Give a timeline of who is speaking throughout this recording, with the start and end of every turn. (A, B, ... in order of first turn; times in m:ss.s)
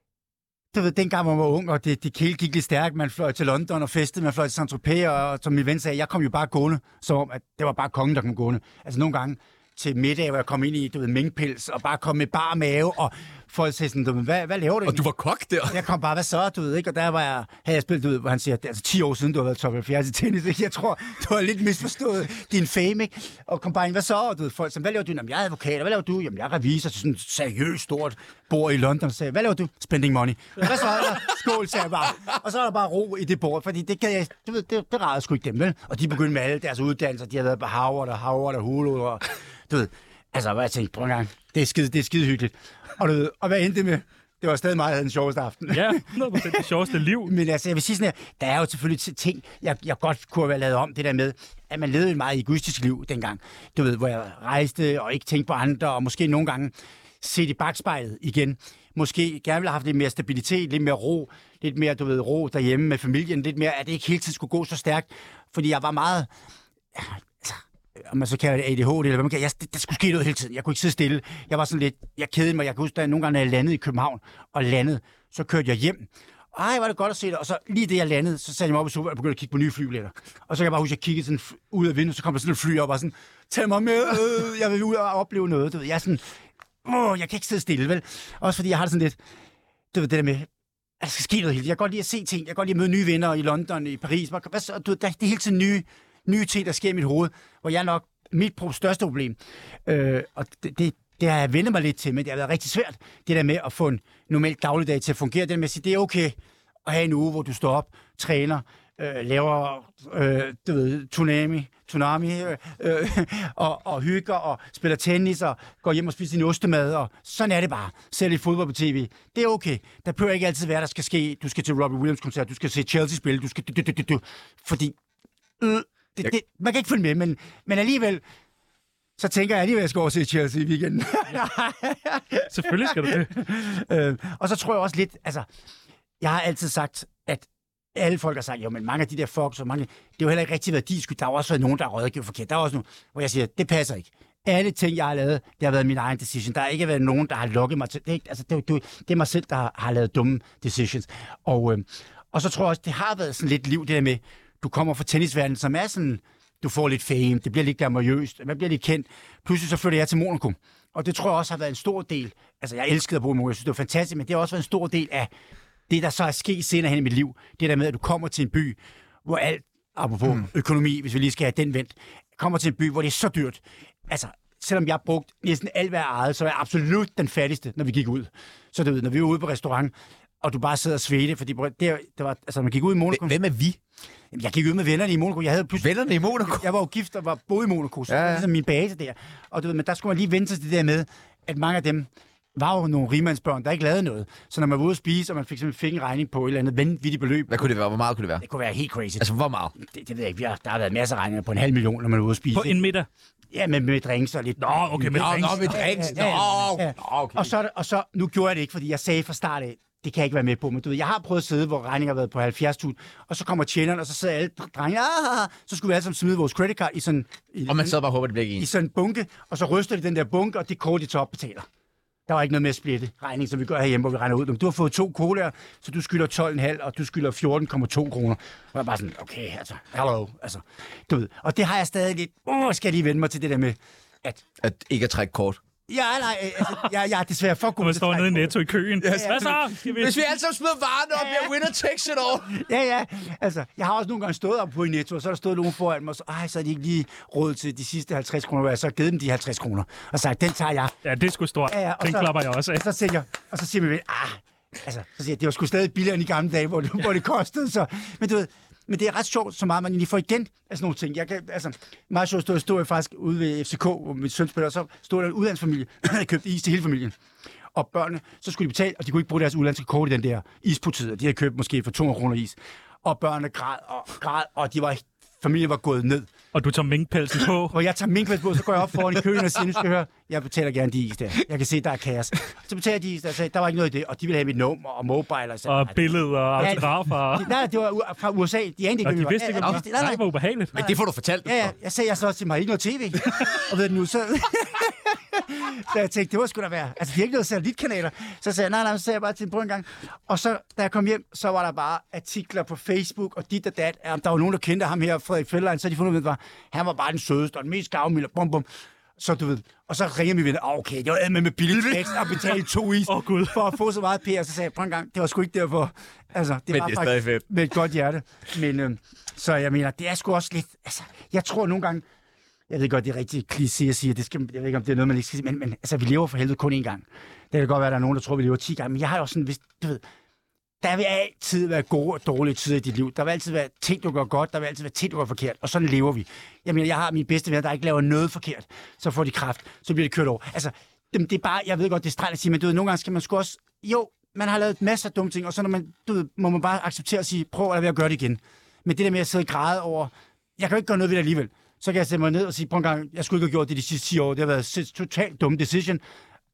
0:00.7-0:15.0 A
0:14.9-0:15.8 B
0:15.7-1:06.3 A
0:45.7-0:47.3 C
1:06.9-1:26.2 A
1:26.8-1:29.2 A
1:29.9-1:30.5 A
1:31.0-2:05.0 A
2:05.6-2:08.2 A
2:09.2-2:15.5 A
2:12.5-2:13.3 C
2:16.2-2:45.3 A
2:45.9-3:03.4 A
3:03.1-3:03.8 B
3:04.3-3:17.7 A
3:05.8-3:06.7 B
3:08.1-3:08.5 B
3:17.5-3:18.4 B
3:18.4-3:22.8 A
3:19.2-3:19.7 B
3:22.5-3:23.1 C
3:23.5-3:38.0 A
3:24.6-3:26.4 C
3:25.2-3:27.5 B
3:37.7-3:38.7 B
3:38.6-3:41.7 A
3:42.3-3:54.4 A
3:54.6-3:55.6 B
3:55.9-3:58.6 A
3:57.8-4:00.2 C
3:59.0-4:02.6 B
3:59.1-3:59.4 A
4:01.1-4:01.7 A
4:02.5-4:11.0 A
4:11.0-4:12.8 C
4:11.7-4:27.2 A
4:27.7-4:36.3 A
4:36.5-4:37.8 C
4:37.7-4:50.2 A
4:45.7-4:47.5 C
4:49.0-4:50.7 C
4:50.7-4:51.7 B
4:50.8-5:08.7 A
5:09.2-5:22.0 A
5:13.1-5:13.8 C
5:16.7-5:17.4 B
5:22.7-5:30.0 A
5:30.8-5:56.0 A